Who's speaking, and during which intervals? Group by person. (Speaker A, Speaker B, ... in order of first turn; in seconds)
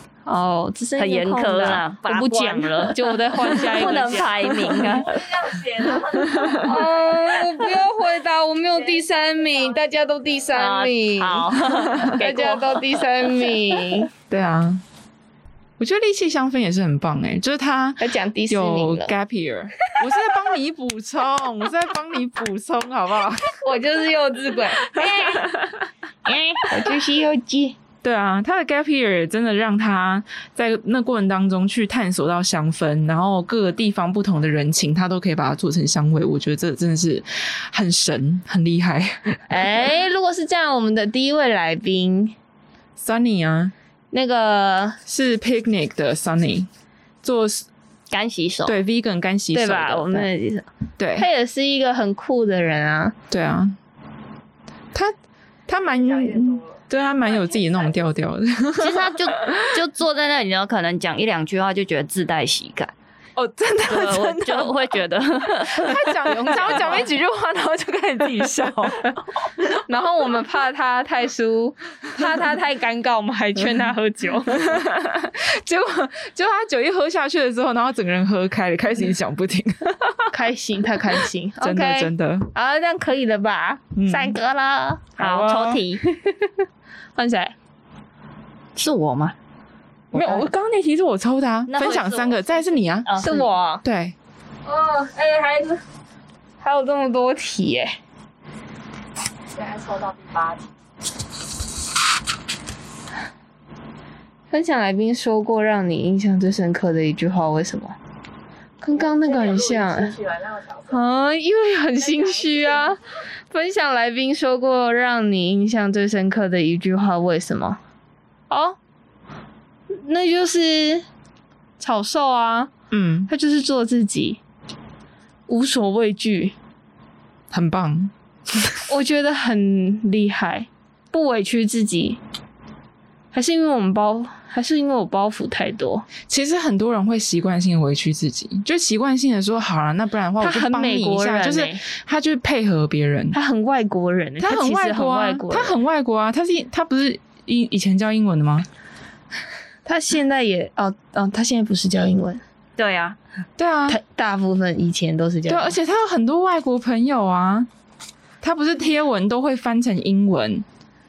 Speaker A: 0.2-5.0, 6.5-14.1, 18.0-19.1, 23.6-25.6, 26.2-27.8, 39.5-42.3, 44.1-45.0, 49.5-53.1, 66.5-67.0, 69.7-74.8, 80.3-85.1, 86.0-86.5, 87.1-87.5, 93.2-93.8, 94.7-95.8, 96.6-98.0, 104.5-108.0, 108.8-110.1, 110.9-113.0, 113.5-117.8, 118.5-118.8, 120.0-121.0, 121.8-122.7, 123.3-124.4, 125.5-126.5, 128.9-132.2, 133.3-136.1, 140.4-141.8, 143.3-145.8, 149.8-152.4, 153.9-155.8
Speaker B: 0.9-5.2, 10.5-13.6, 48.1-48.8, 58.8-62.9, 63.9-67.1, 85.2-86.0, 88.8-89.3, 91.7-93.5, 152.8-153.2
Speaker C: 3.8-7.9, 8.7-10.8, 55.7-58.0, 99.5-100.7, 108.9-111.0, 112.0-113.0
Speaker D: 11.9-12.1, 14.3-14.8, 15.8-23.6, 24.8-25.8, 28.0-39.4, 43.0-43.7, 45.0-46.7, 47.2-47.7, 48.6-50.2, 51.0-51.3, 53.3-53.8, 55.7-59.7, 63.4-64.9, 65.6-69.2, 74.5-80.3, 81.6-82.5, 84.0-84.3, 85.2-85.8, 90.1-93.2, 93.8-94.1, 122.9-123.3, 127.5-128.8, 136.2-143.4, 144.4-148.7, 153.6-154.0, 155.5-157.7, 158.4-160.6